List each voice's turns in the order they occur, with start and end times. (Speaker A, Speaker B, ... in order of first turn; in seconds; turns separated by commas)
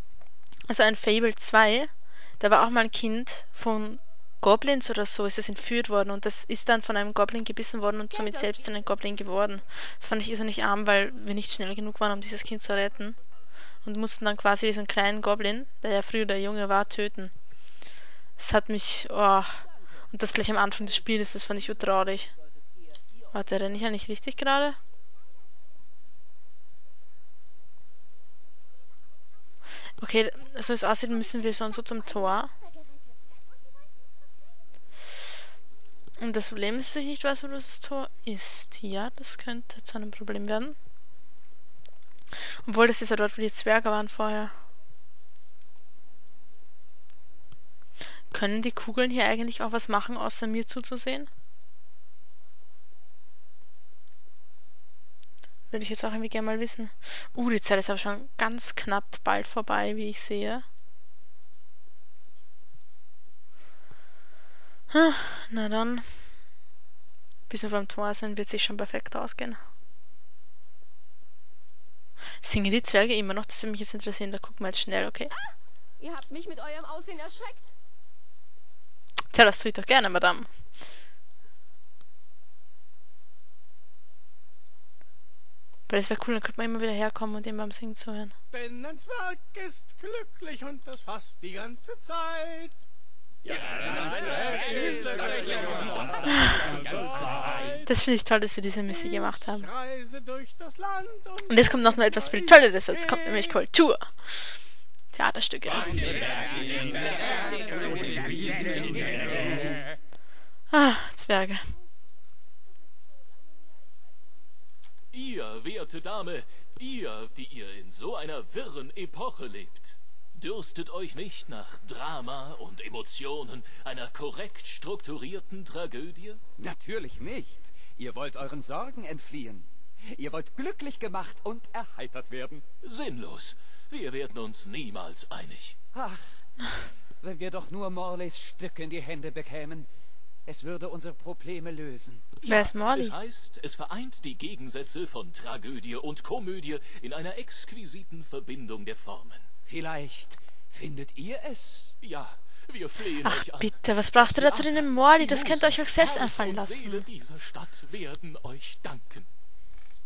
Speaker A: 0.7-13.2, Speaker B: 8.1-8.7, Speaker A: 13.8-17.3, Speaker A: 18.4-22.3, Speaker A: 23.3-24.8, Speaker A: 30.0-32.5, Speaker A: 36.2-40.8, Speaker A: 42.6-44.5, Speaker A: 48.3-51.3, Speaker A: 55.7-60.6, Speaker A: 64.9-66.1, Speaker A: 67.5-69.6, Speaker A: 72.4-75.3, Speaker B: 75.3-77.7, Speaker A: 79.3-80.5, Speaker A: 85.9-88.3, Speaker C: 88.5-92.8, Speaker D: 93.5-96.0, Speaker C: 94.1-97.8, Speaker D: 96.8-97.7, Speaker A: 97.8-99.7, Speaker C: 98.9-103.6, Speaker A: 101.5-104.6, Speaker A: 105.1-106.0, Speaker D: 106.5-109.8, Speaker A: 110.7-111.7, Speaker E: 115.1-126.4, Speaker D: 126.6-132.6, Speaker E: 132.8-135.8, Speaker D: 135.9-136.3, Speaker D: 137.2-139.9, Speaker D: 140.4-142.2, Speaker E: 142.4-149.4, Speaker A: 142.4-143.1, Speaker D: 149.7-151.9, Speaker E: 152.0-159.3, Speaker A: 153.2-157.0